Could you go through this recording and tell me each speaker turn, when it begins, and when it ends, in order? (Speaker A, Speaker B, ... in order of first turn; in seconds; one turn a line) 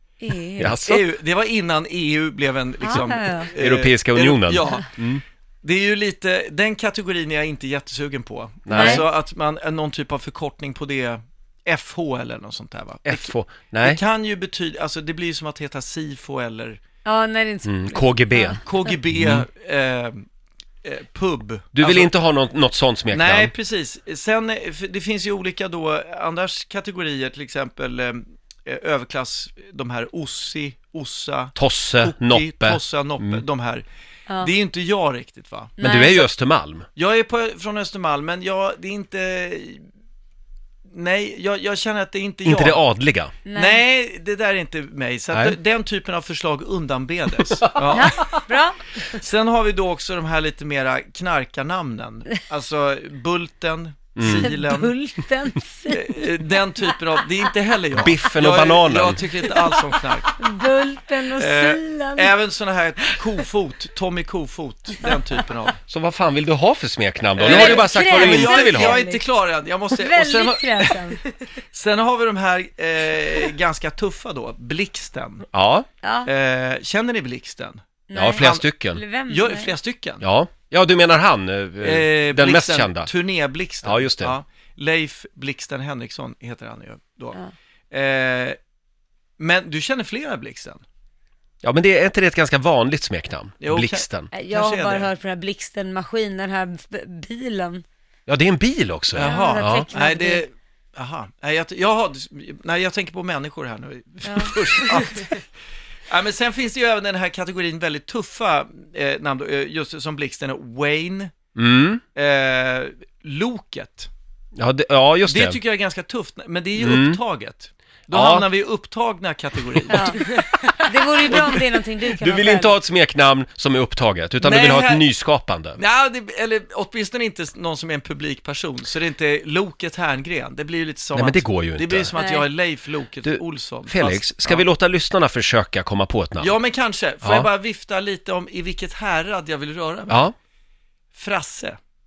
Speaker A: 0.2-0.8
Speaker B: 0.6-1.1
Speaker C: 0.8-4.9
Speaker A: 2.8-3.5
Speaker B: 3.6-5.2
Speaker C: 5.6-16.8
Speaker B: 8.7-9.1
Speaker A: 8.7-9.0
Speaker B: 13.1-14.0
Speaker A: 17.1-18.6
Speaker B: 17.7-18.6
Speaker C: 18.6-20.2
Speaker B: 19.1-19.4
Speaker C: 20.8-22.1
Speaker B: 21.7-23.5
Speaker C: 23.1-33.9
Speaker B: 31.6-33.4
Speaker C: 34.4-35.8
Speaker A: 35.8-36.3
Speaker B: 35.8-36.9
Speaker C: 37.0-39.8
Speaker C: 40.9-42.9
Speaker B: 42.5-43.4
Speaker A: 43.5-43.8
Speaker C: 43.5-48.4
Speaker A: 47.9-49.0
Speaker C: 49.1-54.9
Speaker B: 54.2-54.5
Speaker A: 54.2-56.3
Speaker C: 55.9-60.3
Speaker B: 58.0-59.2
Speaker A: 60.4-62.3
Speaker C: 61.4-65.8
Speaker B: 65.9-69.0
Speaker C: 67.4-71.0
Speaker A: 67.4-69.2
Speaker A: 69.9-71.3
Speaker C: 71.7-75.5
Speaker B: 75.5-75.9
Speaker A: 76.0-76.3
Speaker C: 76.2-77.8
Speaker A: 78.1-79.7
Speaker B: 78.2-79.0
Speaker C: 78.4-78.7
Speaker C: 79.3-80.2
Speaker B: 80.2-83.1
Speaker C: 81.8-87.4
Speaker B: 83.8-84.3
Speaker C: 87.9-88.6
Speaker C: 89.4-90.8
Speaker B: 91.6-94.3
Speaker C: 93.6-95.1
Speaker A: 94.3-97.8
Speaker B: 98.3-99.9
Speaker C: 99.1-105.4
Speaker A: 99.2-100.4
Speaker A: 104.2-105.2
Speaker C: 106.1-111.3
Speaker B: 111.5-112.0
Speaker C: 112.2-114.1
Speaker B: 114.6-115.6
Speaker C: 115.3-120.2
Speaker B: 116.8-117.2
Speaker B: 118.1-118.5
Speaker A: 119.9-122.8
Speaker B: 122.2-125.8
Speaker C: 124.4-125.1
Speaker C: 125.8-134.7
Speaker B: 131.2-132.1
Speaker A: 132.2-132.4
Speaker B: 133.2-136.5
Speaker C: 136.4-140.3
Speaker B: 137.2-137.5
Speaker B: 140.1-140.3
Speaker C: 141.1-141.8